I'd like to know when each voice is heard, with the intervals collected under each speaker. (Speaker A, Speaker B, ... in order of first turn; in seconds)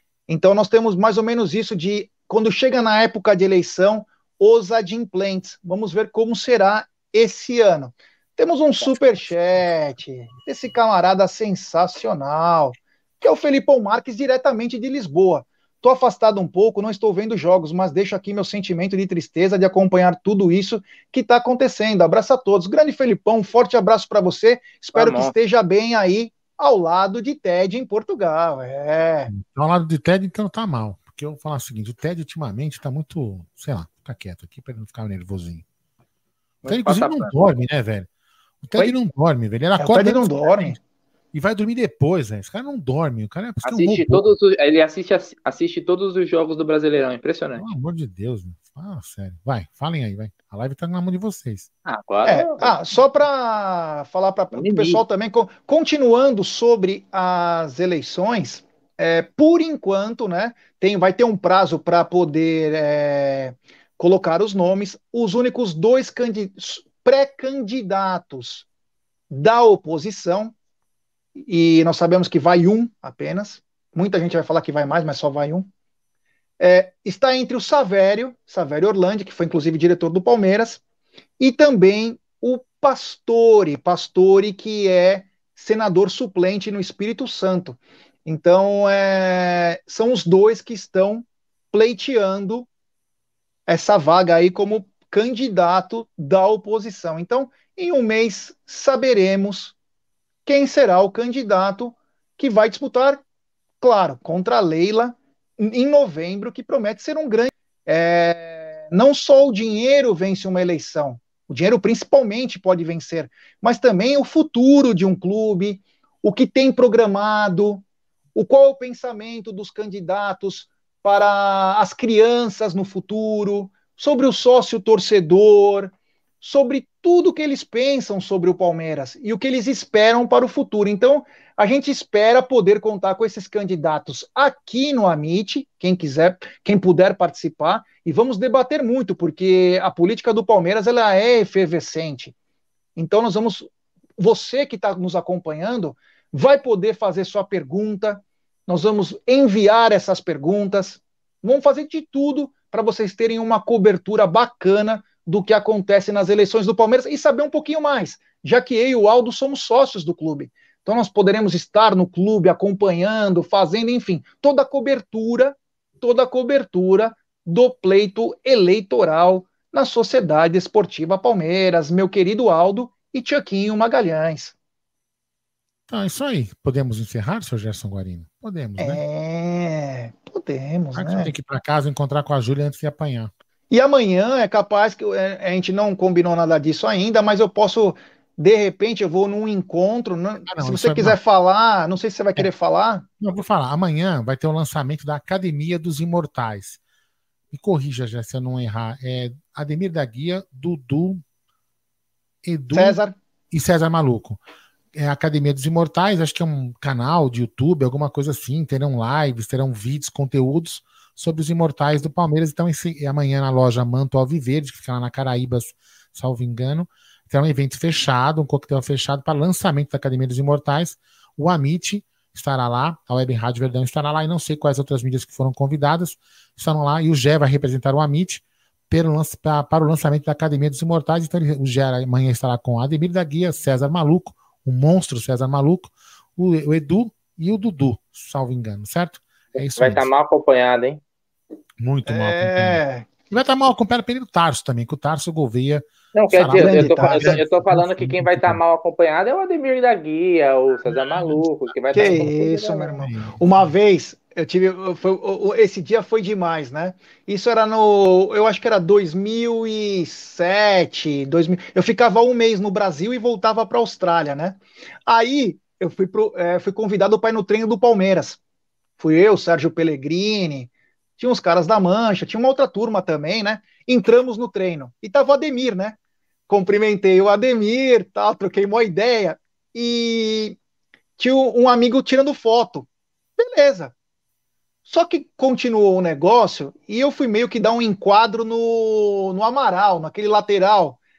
Speaker A: 0.3-29.3, 39.8-40.8, 52.2-68.7, 69.3-70.5, 71.3-75.7, 76.6-80.8, 81.4-92.7, 93.7-99.7, 100.5-103.2, 103.8-117.8, 118.3-142.3, 142.9-174.5, 178.8-181.3, 183.7-193.1, 202.7-203.1, 242.1-243.1, 246.5-247.4, 251.9-268.4, 269.0-276.0, 276.5-280.6, 281.2-282.9, 283.4-283.9, 284.9-291.0
Speaker B: 24.9-25.3, 36.6-37.4, 43.6-47.6, 51.9-52.7, 54.5-55.0, 239.8-241.0, 246.1-252.9
Speaker C: 29.3-35.6, 36.6-38.1, 38.6-40.8, 41.3-44.3, 47.5-51.7, 175.9-179.0, 180.9-183.3, 190.4-191.2, 193.2-196.8, 197.5-201.2, 202.4-203.0, 203.5-204.4, 204.9-240.1, 241.8-248.6, 250.8-252.4, 252.9-253.7